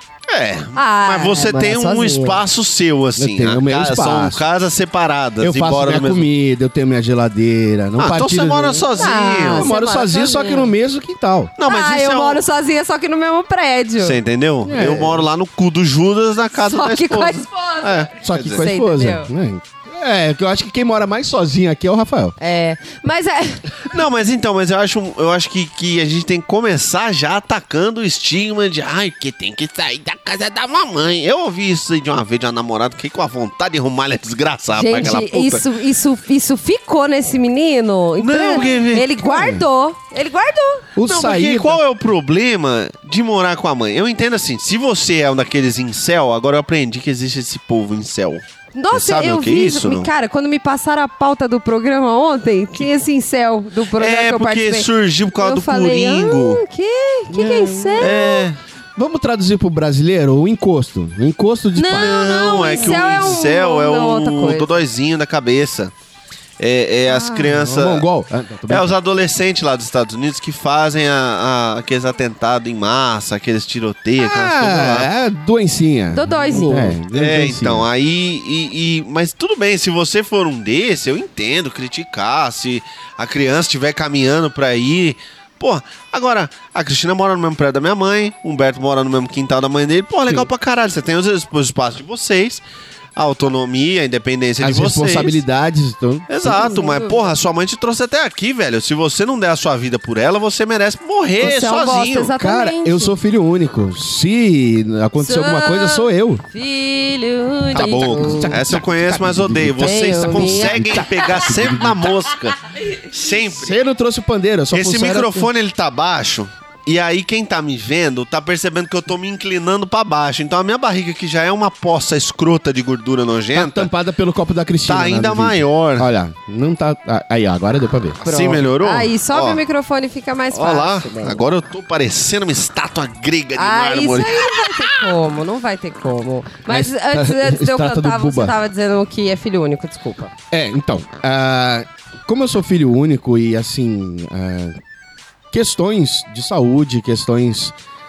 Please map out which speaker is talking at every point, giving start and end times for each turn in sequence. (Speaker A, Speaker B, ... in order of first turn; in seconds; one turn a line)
Speaker A: 0.3-6.3
Speaker B: 0.8-2.4
Speaker C: 3.2-4.4
Speaker C: 5.4-8.9
Speaker A: 8.0-9.7
Speaker B: 8.9-10.7
Speaker C: 9.5-11.5
Speaker A: 11.6-12.4
Speaker B: 11.7-14.2
Speaker A: 14.0-18.7
Speaker C: 14.7-15.3
Speaker B: 16.6-19.3
Speaker C: 18.2-22.4
Speaker B: 22.4-23.6
Speaker A: 23.9-35.6
Speaker B: 34.7-40.9
Speaker A: 38.2-39.3
Speaker C: 39.3-39.6
Speaker C: 41.0-41.8
Speaker A: 41.0-50.1
Speaker B: 48.8-58.5
Speaker A: 54.0-56.6
Speaker C: 57.3-58.2
Speaker A: 58.0-58.6
Speaker C: 59.0-63.2
Speaker B: 61.8-64.7
Speaker A: 61.9-65.9
Speaker A: 66.6-68.1
Speaker C: 67.1-68.9
Speaker A: 68.7-75.1
Speaker C: 74.2-77.9
Speaker B: 76.1-77.0
Speaker A: 77.1-92.6
Speaker A: 93.2-95.4
Speaker C: 94.6-96.3
Speaker A: 96.3-102.3
Speaker B: 96.5-97.3
Speaker B: 101.4-103.2
Speaker C: 102.3-106.4
Speaker B: 105.2-108.6
Speaker C: 107.7-112.1
Speaker A: 107.8-113.8
Speaker B: 109.8-111.1
Speaker C: 113.5-115.5
Speaker A: 114.7-123.9
Speaker C: 123.5-128.2
Speaker A: 124.9-126.1
Speaker A: 128.2-129.6
Speaker B: 128.2-131.4
Speaker A: 130.5-134.7
Speaker B: 133.6-140.3
Speaker C: 136.7-138.6
Speaker C: 140.5-144.8
Speaker C: 145.5-147.8